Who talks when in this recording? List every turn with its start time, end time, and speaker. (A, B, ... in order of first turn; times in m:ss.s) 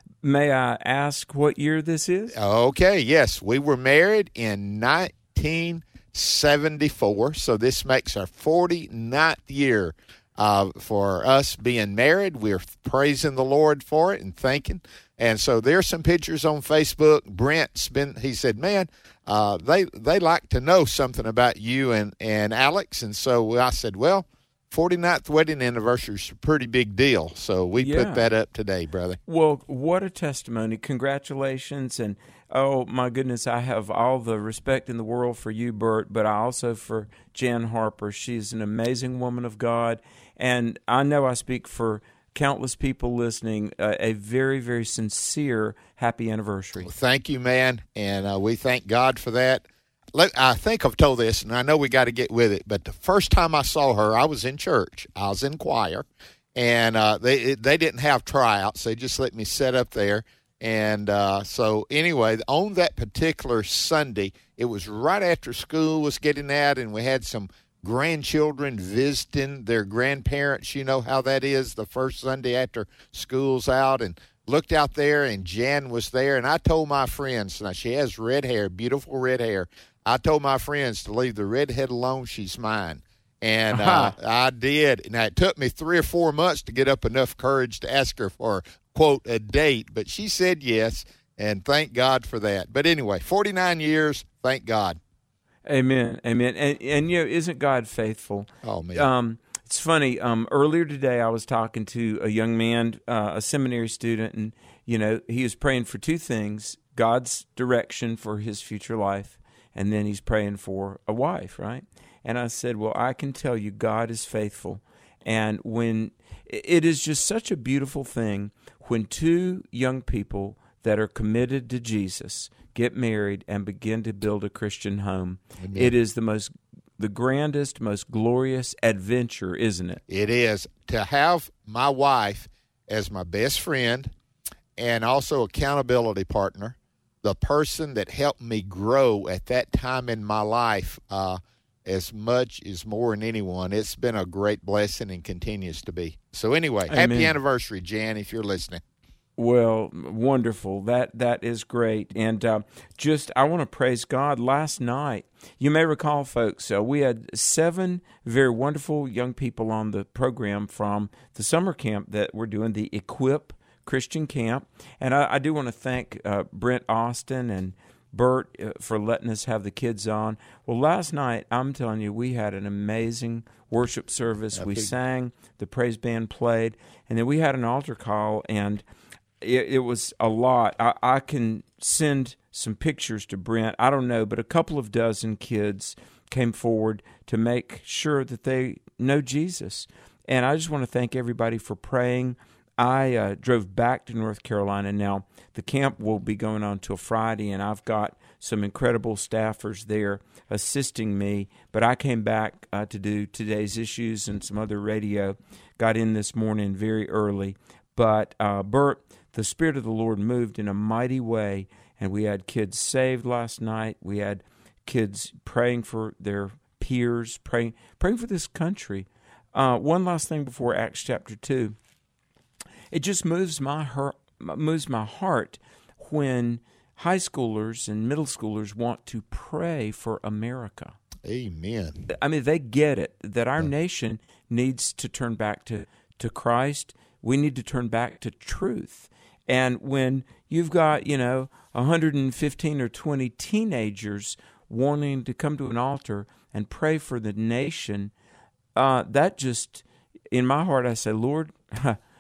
0:00.2-0:02.4 A
0:02.3-0:29.2 B
0:27.8-0:28.3 A
0:29.3-0:46.9 A
0:46.8-1:35.0 B
1:23.7-1:24.2 A
1:35.7-2:10.0 A
1:38.6-1:39.1 B
2:05.6-2:06.0 B
2:10.1-2:14.1 B
2:14.8-2:28.8 B
2:26.9-2:27.4 A
2:29.4-2:58.8 A
2:54.5-2:54.9 B
2:59.4-3:41.8 A
3:42.9-3:51.0 A
3:51.2-3:52.1 B
3:52.1-4:08.1 A
4:08.8-4:12.0 A